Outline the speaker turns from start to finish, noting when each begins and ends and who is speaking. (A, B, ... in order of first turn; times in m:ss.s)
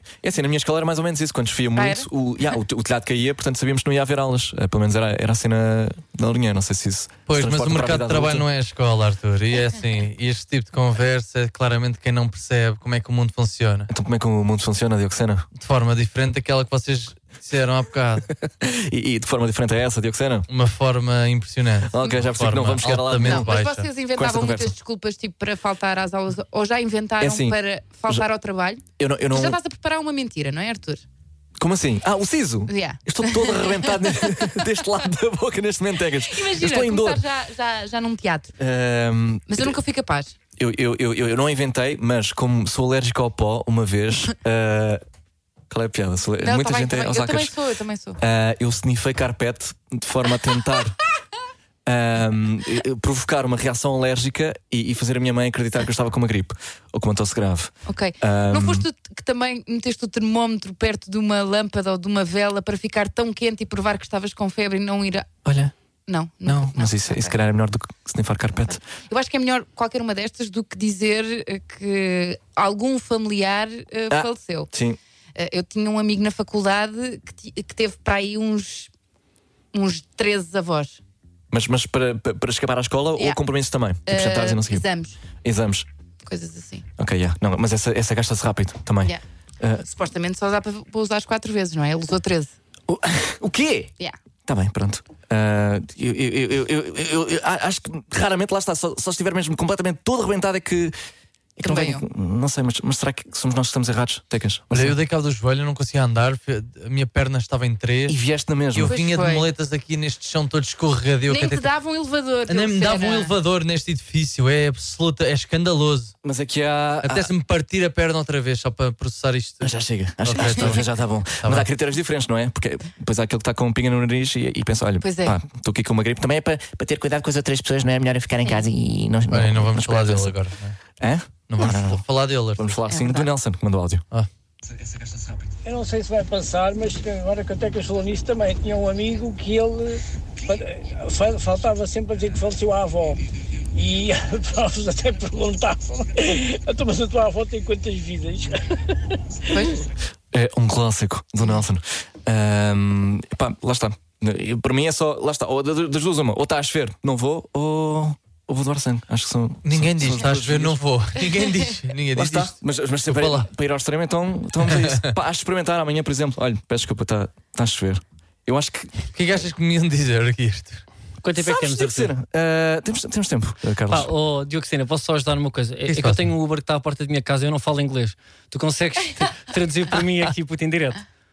0:00.2-0:08.5 A
0:01.8-0:02.1 B
0:07.3-0:13.9 C
0:13.9-0:15.5 A
0:15.6-0:18.3 C
0:18.5-0:20.5 A
0:20.5-0:23.9 C
0:21.9-0:23.6 A
0:23.2-0:31.0 B
0:24.1-0:24.7 A
0:27.2-0:27.6 A
0:29.0-0:29.6 A
0:31.6-0:37.2 A
0:32.7-0:34.8 B
0:36.2-0:38.5 B
0:38.6-0:39.8 A
0:39.5-0:40.3 B
0:40.6-0:45.0 A
0:45.7-0:47.5 A
0:46.4-0:48.2 B
0:48.2-0:51.0 A
0:51.9-0:58.8 A
0:57.9-1:05.3 B
1:05.4-1:05.7 A
1:06.1-1:07.4 B
1:06.5-1:08.8 A
1:08.5-1:14.7 B
1:14.1-1:15.0 A
1:15.4-1:18.9 B
1:19.7-1:21.0 B
1:21.5-1:24.8 A
1:23.2-1:23.4 B
1:24.1-1:25.2 B
1:25.4-1:25.9 A
1:26.3-1:26.8 B
1:27.0-1:29.8 A
1:29.8-1:32.5 B
1:32.9-1:33.9 A
1:34.5-1:40.9 A
1:41.6-1:45.0 A
1:41.6-1:42.0 B
1:44.7-1:48.2 C
1:48.1-1:49.0 A
1:48.7-1:51.7 C
1:48.8-1:49.5 B
1:51.3-1:53.3 B
1:52.5-1:56.1 C
1:56.2-1:57.3 A
1:57.0-2:01.7 C
1:59.6-2:10.4 A
2:00.4-2:00.8 B
2:05.0-2:05.4 B
2:09.3-2:10.8 C
2:11.0-2:12.0 A
2:11.5-2:12.8 C
2:12.6-2:14.0 A
2:12.9-2:13.3 B
2:15.6-2:23.2 D
2:23.7-2:28.8 D
2:29.5-2:29.8 B
2:30.3-2:40.8 A
2:39.6-2:43.5 C
2:42.1-2:49.0 A
2:44.7-2:45.0 C
2:49.1-2:50.8 C
2:51.2-2:52.1 E
2:51.4-2:54.1 A
2:53.9-3:01.0 E
2:55.9-2:56.3 C